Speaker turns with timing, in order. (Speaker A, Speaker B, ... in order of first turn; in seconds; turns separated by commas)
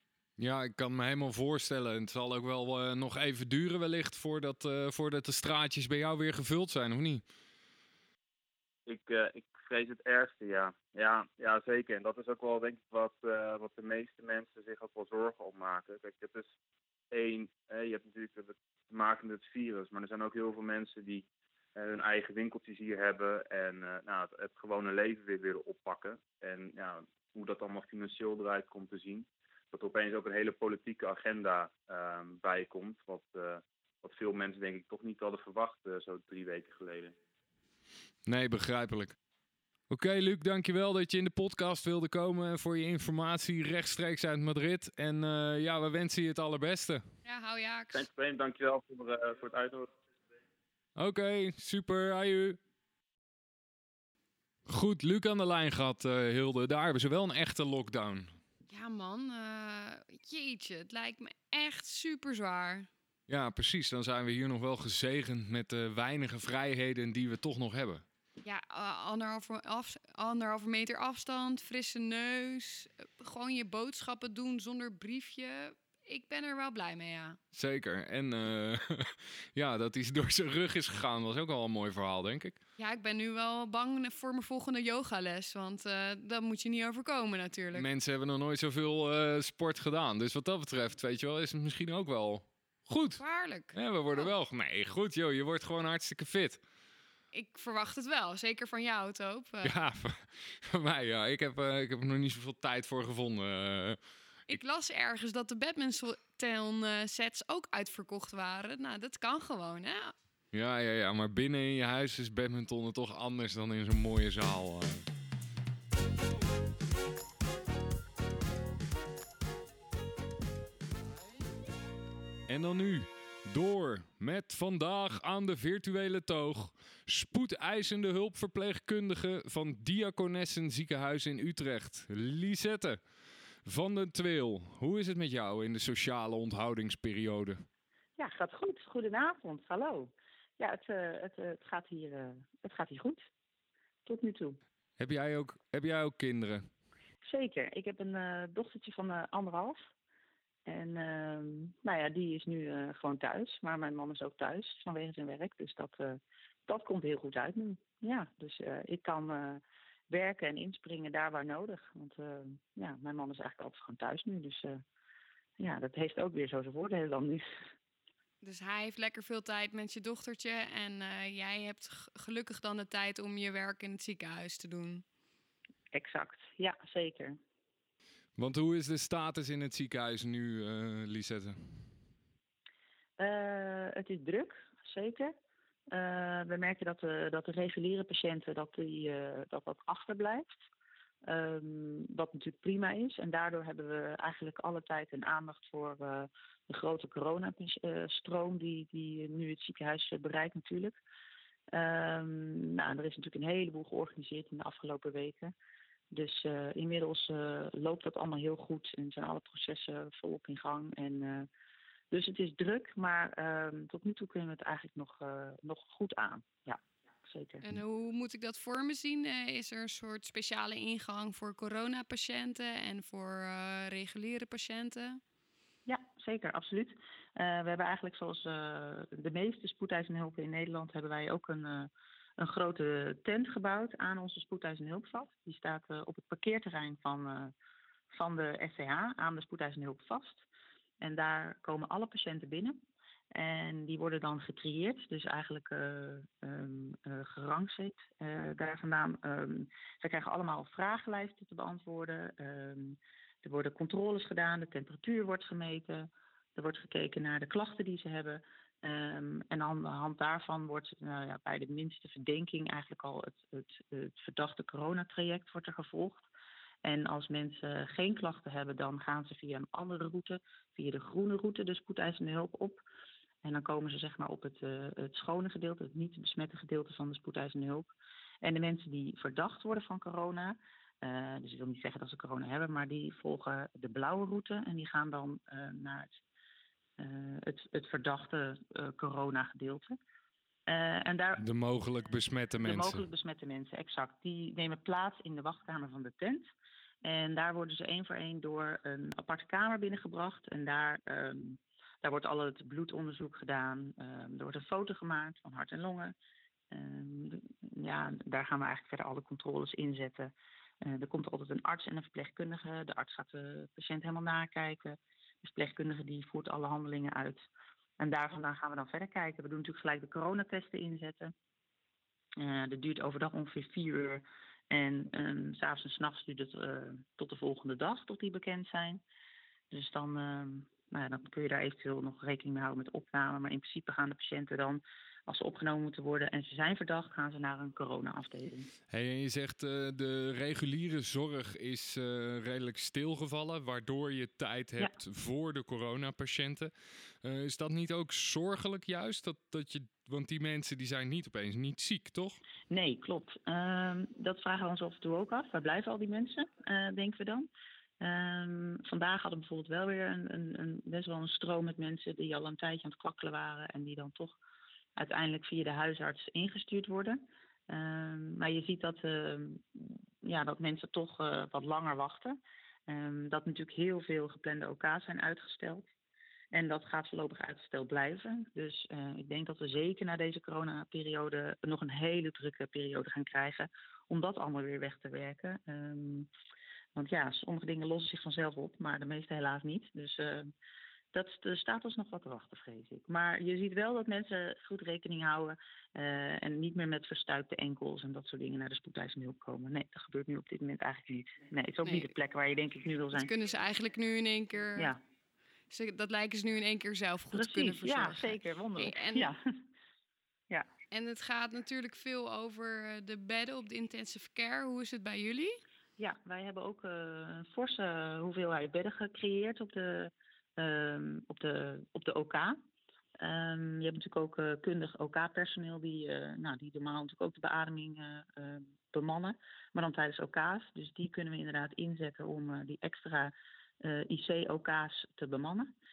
Speaker A: 0.4-7.2, Speaker B: 8.9-16.5, Speaker B: 17.1-37.1, Speaker A: 38.3-39.2, Speaker A: 39.9-47.0, Speaker C: 47.2-48.1, Speaker B: 47.9-49.9, Speaker A: 51.0-52.6, Speaker A: 54.7-58.4, Speaker C: 58.7-62.9, Speaker A: 63.3-68.0, Speaker C: 68.4-77.4, Speaker A: 77.5-82.6, Speaker C: 82.8-87.9, Speaker A: 87.7-93.2, Speaker C: 93.2-94.3, Speaker A: 93.7-96.6, Speaker C: 97.3-99.7, Speaker A: 99.6-104.6, Speaker C: 104.5-110.1, Speaker A: 110.5-115.0, Speaker A: 122.5-133.0, Speaker A: 133.7-137.7, Speaker D: 138.2-143.3, Speaker D: 144.1-144.6, Speaker A: 145.0-146.7, Speaker D: 147.2-149.8, Speaker D: 150.7-164.8, Speaker D: 165.6-167.5, Speaker C: 168.4-175.0, Speaker D: 175.9-177.4, Speaker A: 178.4-181.9, Speaker D: 183.2-185.3, Speaker D: 185.9-190.5, Speaker D: 191.2-201.0, Speaker D: 201.7-205.5, Speaker D: 206.1-211.5, Speaker D: 212.1-217.6, Speaker C: 217.6-225.2, Speaker D: 225.9-237.5, Speaker D: 238.2-240.4, Speaker D: 241.0-242.8, Speaker D: 243.3-266.3, Speaker D: 266.8-272.8, Speaker D: 273.4-277.9, Speaker D: 278.4-286.2, Speaker D: 287.0-290.0, Speaker D: 290.7-291.4, Speaker A: 291.4-293.0, Speaker D: 292.6-296.5, Speaker D: 297.0-306.1, Speaker D: 306.7-317.4, Speaker D: 318.0-321.3, Speaker D: 322.4-329.0, Speaker D: 329.7-338.7, Speaker A: 338.9-346.7, Speaker A: 347.2-352.4, Speaker D: 352.7-357.5, Speaker D: 358.0-364.4, Speaker D: 365.0-375.9, Speaker D: 376.5-386.3, Speaker D: 387.0-390.5, Speaker D: 391.1-403.3, Speaker C: 401.8-402.1, Speaker C: 403.1-404.9, Speaker C: 405.7-409.3, Speaker D: 407.3-409.4, Speaker C: 410.9-415.6, Speaker D: 416.0-422.6, Speaker D: 423.2-435.7